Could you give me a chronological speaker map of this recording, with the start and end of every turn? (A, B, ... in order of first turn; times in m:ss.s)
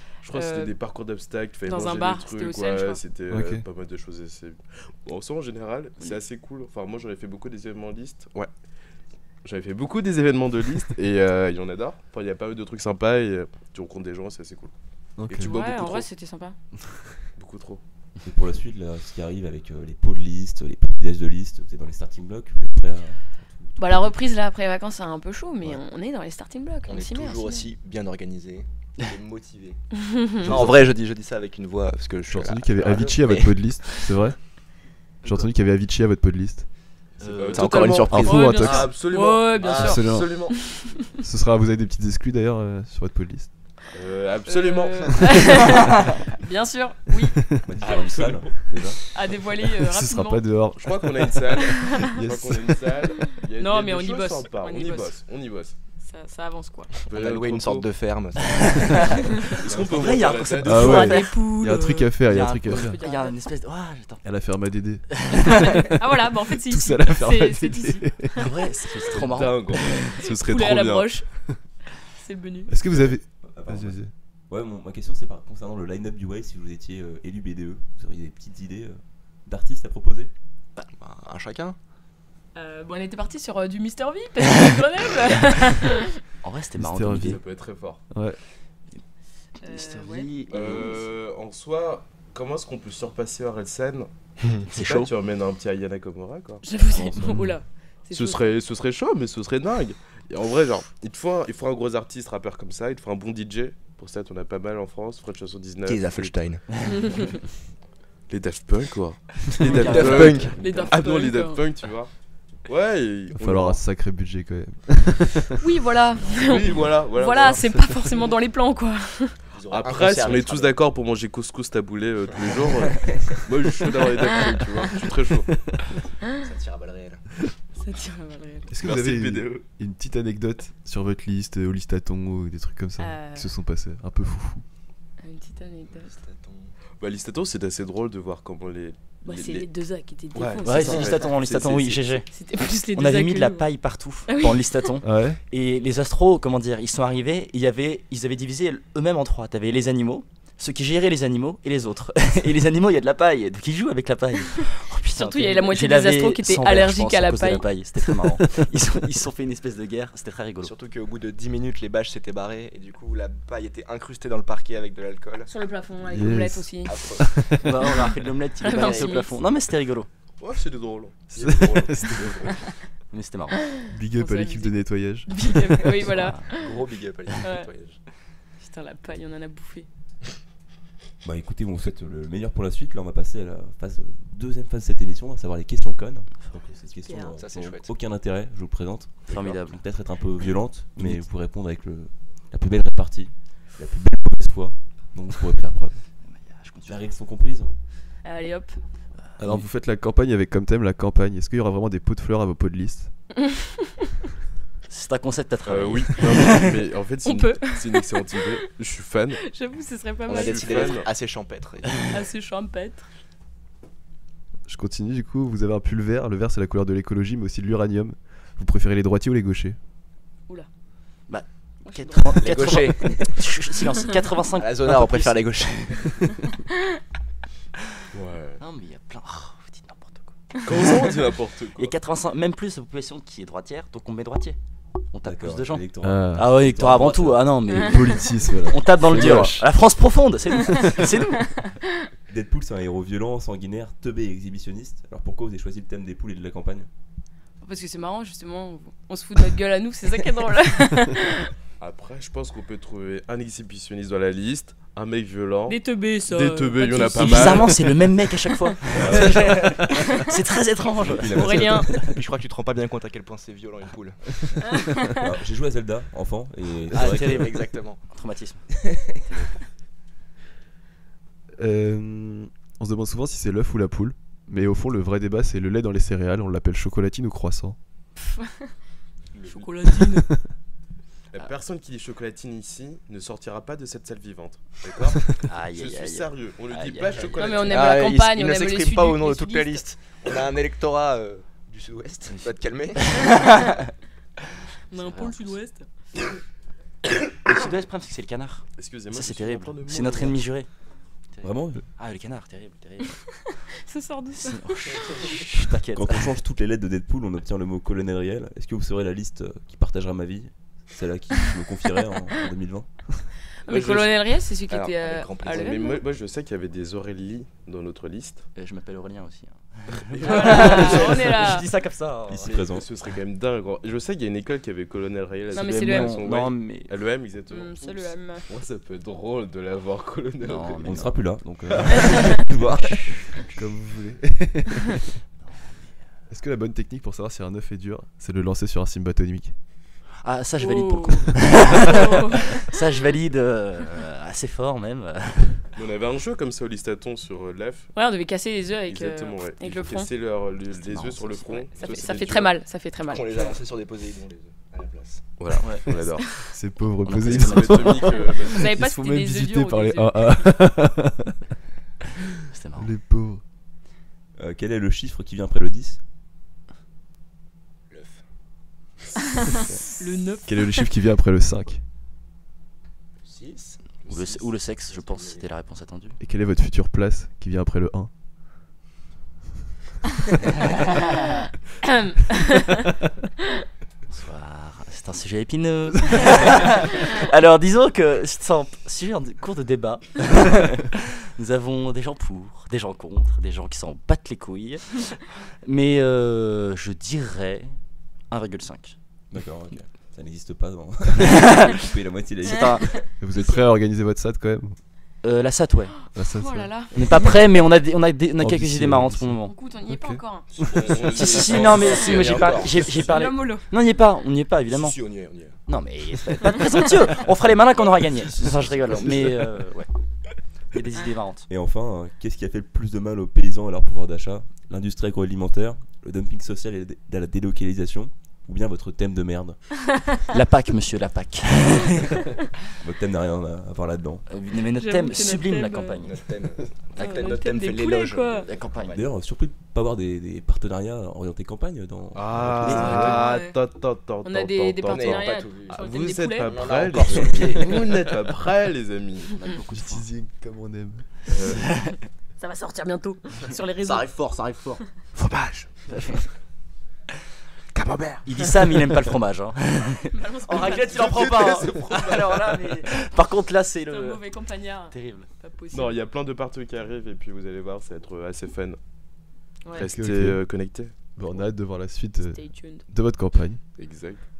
0:00.2-0:08.5 A
0:00.3-0:00.8 B
0:01.6-0:03.0 B
0:03.3-0:03.6 C
0:09.4-0:14.7 A
0:15.3-0:16.6 B
0:15.3-0:16.1 A
0:17.4-0:17.8 A
0:18.2-0:24.1 D
0:23.8-0:27.7 B
0:26.8-0:29.8 E
0:30.0-0:30.5 B
0:30.3-0:34.1 E
0:30.4-0:30.7 D
0:32.3-0:34.5 C
0:35.2-0:36.7 C
0:37.2-0:40.4 A
0:37.2-0:38.1 F
0:37.5-0:38.8 E
0:37.6-0:41.1 B
0:37.9-0:39.0 C
0:39.5-0:40.5 E
0:39.8-0:40.5 C
0:41.2-0:43.5 C
0:43.9-0:45.3 A
0:44.4-0:47.5 B
0:47.6-0:49.0 D
0:47.8-0:48.6 A
0:47.9-0:48.3 E
0:49.1-0:50.5 B
0:49.8-0:52.7 C
0:50.8-0:55.7 A
0:51.7-0:52.0 B
0:53.1-0:55.2 B
0:56.0-0:57.1 B
0:57.0-0:57.9 A
0:57.1-0:59.2 E
0:58.5-1:01.5 F
0:59.2-0:59.7 B
0:59.5-1:01.2 A
1:00.6-1:03.0 C
1:00.7-1:02.2 B
1:02.2-1:04.2 F
1:02.7-1:03.4 B
1:04.2-1:08.5 C
1:05.3-1:08.8 B
1:08.4-1:10.1 F
1:09.1-1:11.2 A
1:10.0-1:11.3 B
1:12.1-1:12.7 B
1:12.7-1:14.1 C
1:12.9-1:20.3 D
1:20.8-1:21.8 E
1:22.5-1:26.2 B
1:26.4-1:27.4 F
1:26.8-1:27.4 C
1:27.2-1:28.0 A
1:28.1-1:28.4 C
1:29.6-1:31.0 B
1:29.6-1:31.0 F
1:30.5-1:34.1 A
1:34.7-1:36.6 A
1:34.7-1:35.1 F
1:36.6-1:38.6 B
1:37.2-1:37.6 C
1:38.1-1:46.4 A
1:45.8-1:46.8 E
1:46.8-1:47.4 B
1:48.3-1:52.1 A
1:49.6-1:50.9 F
1:49.7-1:50.6 E
1:50.5-1:51.6 B
1:52.6-1:53.8 A
1:53.3-1:55.6 C
1:55.6-1:59.4 B
1:56.4-1:57.8 A
1:57.8-1:58.1 C
1:59.5-2:00.8 E
1:59.7-2:05.8 A
2:04.3-2:05.0 B
2:06.3-2:07.2 E
2:07.8-2:08.8 B
2:08.7-2:14.6 C
2:08.8-2:09.6 A
2:13.0-2:13.5 B
2:15.2-2:16.1 B
2:15.8-2:16.7 E
2:17.0-2:19.7 A
2:19.2-2:21.3 B
2:20.3-2:22.2 A
2:20.6-2:22.3 F
2:20.8-2:21.2 E
2:22.2-2:23.7 B
2:22.9-2:40.7 F
2:24.2-2:24.9 B
2:25.0-2:25.4 C
2:35.0-2:37.7 B
2:40.6-2:45.5 E
2:45.5-2:47.1 B
2:46.0-2:47.8 C
2:46.8-2:47.5 E
2:47.5-2:50.1 F
2:48.6-2:49.5 B
2:48.7-2:49.2 E
2:50.4-2:52.5 A
2:51.3-2:52.3 E
2:51.4-2:52.6 C
2:53.1-2:53.6 F
2:53.6-2:56.8 B
2:53.9-2:56.0 C
2:56.1-2:56.4 F
2:56.4-2:58.0 E
2:57.4-2:57.7 B
2:58.6-2:59.9 B
3:01.2-3:16.0 D
3:07.0-3:07.4 B
3:07.2-3:07.9 E
3:09.3-3:09.8 F
3:11.0-3:11.3 C
3:16.3-3:17.0 F
3:16.8-3:17.7 D
3:18.2-3:18.8 B
3:19.4-3:23.1 C
3:24.9-3:26.8 F
3:25.6-3:29.4 A
3:27.2-3:28.6 B
3:29.3-3:30.8 B
3:30.2-3:32.2 E
3:30.3-3:31.1 A
3:32.1-3:33.0 B
3:34.7-3:39.8 C
3:41.3-3:45.5 F
3:41.9-3:42.5 B
3:42.4-3:43.5 E
3:44.6-3:46.3 E
3:48.1-3:48.6 A
3:48.6-3:50.3 F
3:50.6-3:51.9 A
3:51.8-3:54.6 F
3:55.1-3:57.9 F
3:55.2-3:57.6 D
3:56.0-3:56.5 C
3:57.7-3:59.7 C
3:57.8-3:58.1 B
3:58.7-4:01.4 F
4:00.7-4:01.5 B
4:02.3-4:06.9 D
4:07.6-4:11.5 B
4:11.8-4:18.0 A
4:15.7-4:17.2 B
4:17.0-4:21.4 F
4:18.9-4:19.7 A
4:18.9-4:19.8 D
4:20.0-4:20.3 B
4:21.0-4:22.2 D
4:21.3-4:22.0 B
4:21.6-4:24.6 E
4:25.0-4:27.6 D
4:26.9-4:28.0 E
4:27.0-4:28.8 F
4:31.6-4:37.8 C
4:39.3-4:40.0 E
4:39.6-4:40.3 B
4:40.0-4:40.4 C
4:41.3-4:48.0 A
4:45.4-4:47.4 F
4:47.1-4:53.4 E
4:47.3-4:49.9 B
4:52.3-4:53.7 F
4:54.9-4:55.8 B
4:54.9-4:55.6 F
4:57.4-5:00.7 F
4:58.8-5:00.5 A
5:01.4-5:03.2 F
5:01.4-5:01.8 D
5:03.2-5:05.4 B
5:04.3-5:06.3 F
5:05.9-5:13.1 D
5:13.6-5:16.0 B
5:13.7-5:14.2 A
5:14.7-5:16.0 E
5:15.4-5:18.4 A
5:18.6-5:22.7 F
5:20.1-5:21.4 A
5:20.2-5:21.7 B
5:22.3-5:22.9 D
5:22.6-5:31.1 A
5:25.5-5:26.2 B
5:25.5-5:26.9 F
5:27.5-5:28.5 B
5:30.4-5:31.2 F
5:30.8-5:33.4 D
5:32.1-5:32.4 B
5:33.5-5:35.0 C
5:36.3-5:39.5 C
5:40.2-5:45.7 F
5:40.6-5:42.7 B
5:45.8-5:47.9 A
5:47.9-5:50.1 B
5:48.8-5:52.6 A
5:50.7-5:51.8 F
5:51.7-5:55.7 E
5:51.8-5:53.6 B
5:55.4-5:56.2 A
5:55.6-5:55.9 F
5:56.1-5:56.5 B
5:56.5-6:01.4 C
5:57.0-5:58.2 F
5:57.1-5:58.7 A
5:58.0-6:00.7 B
6:02.5-6:02.9 F
6:02.7-6:03.4 C
6:04.4-6:06.0 D
6:07.9-6:08.2 E
6:10.0-6:10.8 B
6:10.4-6:11.8 C
6:13.2-6:15.5 E
6:14.0-6:14.4 A
6:14.1-6:16.2 F
6:16.2-6:18.1 C
6:21.8-6:22.6 B
6:24.1-6:37.7 F
6:38.3-6:38.9 F
6:39.3-6:42.9 D
6:42.6-6:42.8 F
6:43.2-6:44.8 C
6:43.3-6:43.7 B
6:45.2-6:46.0 F
6:46.1-6:47.5 B
6:46.1-6:46.8 C
6:46.9-6:49.5 F
6:48.4-6:50.7 C
6:49.4-6:50.6 B
6:50.6-6:53.3 E
6:50.6-6:53.1 A
6:50.9-6:55.0 F
6:53.1-6:53.7 B
6:54.7-6:55.6 E
6:55.7-6:59.9 F
6:57.7-6:59.5 E
7:00.7-7:01.5 F
7:01.5-7:09.8 D
7:10.3-7:12.2 F
7:12.6-7:14.2 D
7:14.3-7:16.1 F
7:14.7-7:16.4 B
7:16.0-7:19.1 E
7:16.9-7:18.5 B
7:18.4-7:19.0 F
7:18.8-7:23.2 D
7:22.1-7:29.3 A
7:22.4-7:23.2 C
7:23.0-7:23.6 B
7:24.2-7:26.6 B
7:24.8-7:25.8 E
7:26.4-7:28.1 E
7:27.0-7:27.4 F
7:29.4-7:30.0 F
7:29.7-7:31.1 C
7:31.3-7:31.8 A
7:31.6-7:31.9 F
7:32.4-7:34.2 B
7:33.8-7:35.9 E
7:35.9-7:36.2 F
7:37.8-7:38.8 E
7:38.2-7:44.3 F
7:40.1-7:41.2 B
7:40.6-7:42.8 E
7:43.9-7:46.0 B
7:44.9-7:45.3 F
7:45.7-7:48.8 A
7:49.7-7:50.9 A
7:49.8-7:53.6 C
7:52.2-7:52.8 B
7:53.8-7:54.2 A